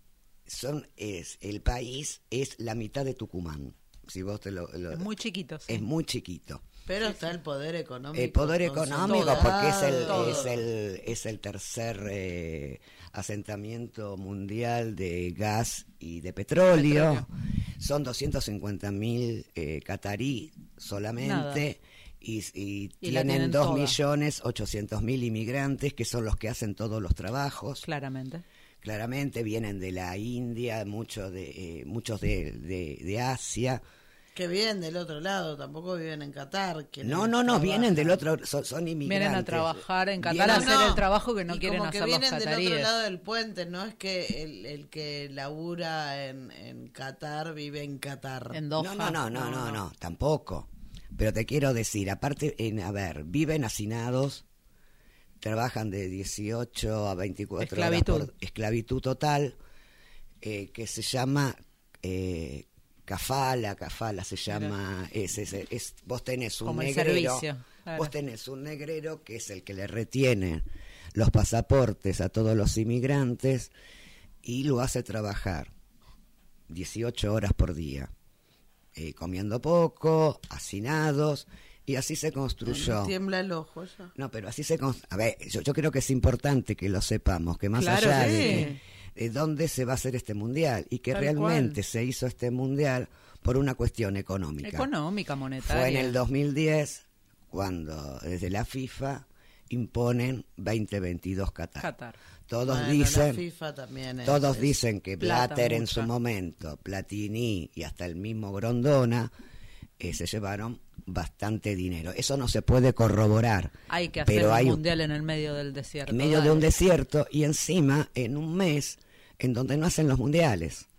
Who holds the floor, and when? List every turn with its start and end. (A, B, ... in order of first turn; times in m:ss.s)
0:00.5-0:05.1 A
0:04.9-0:05.8 B
0:05.7-0:06.7 A
0:06.9-0:10.6 C
0:08.1-0:17.3 A
0:09.1-0:10.5 B
0:16.7-0:17.3 B
0:17.8-0:27.8 A
0:21.2-0:21.6 B
0:23.0-0:24.0 B
0:27.8-0:28.4 B
0:28.8-0:33.8 A
0:34.4-0:38.2 C
0:37.0-0:40.9 A
0:39.0-0:42.9 B
0:40.4-0:48.6 C
0:48.5-0:49.8 B
0:48.8-0:54.4 A
0:55.4-0:59.6 A
0:57.6-0:58.3 B
1:00.4-1:10.6 A
1:06.6-1:08.1 B
1:11.2-1:13.7 A
1:14.4-1:15.7 A
1:16.7-1:18.1 A
1:19.0-1:23.1 A
1:22.6-1:24.1 C
1:24.2-1:34.9 A
1:27.8-1:28.7 B
1:28.0-1:28.8 C
1:31.1-1:31.8 B
1:34.6-1:36.2 B
1:35.6-1:41.9 A
1:41.8-1:42.2 B
1:42.5-1:43.4 A
1:42.6-1:44.8 C
1:44.2-1:49.3 A
1:45.2-1:46.1 B
1:50.0-1:53.8 A
1:53.9-1:56.7 B
1:54.3-1:54.8 A
1:56.1-2:00.9 A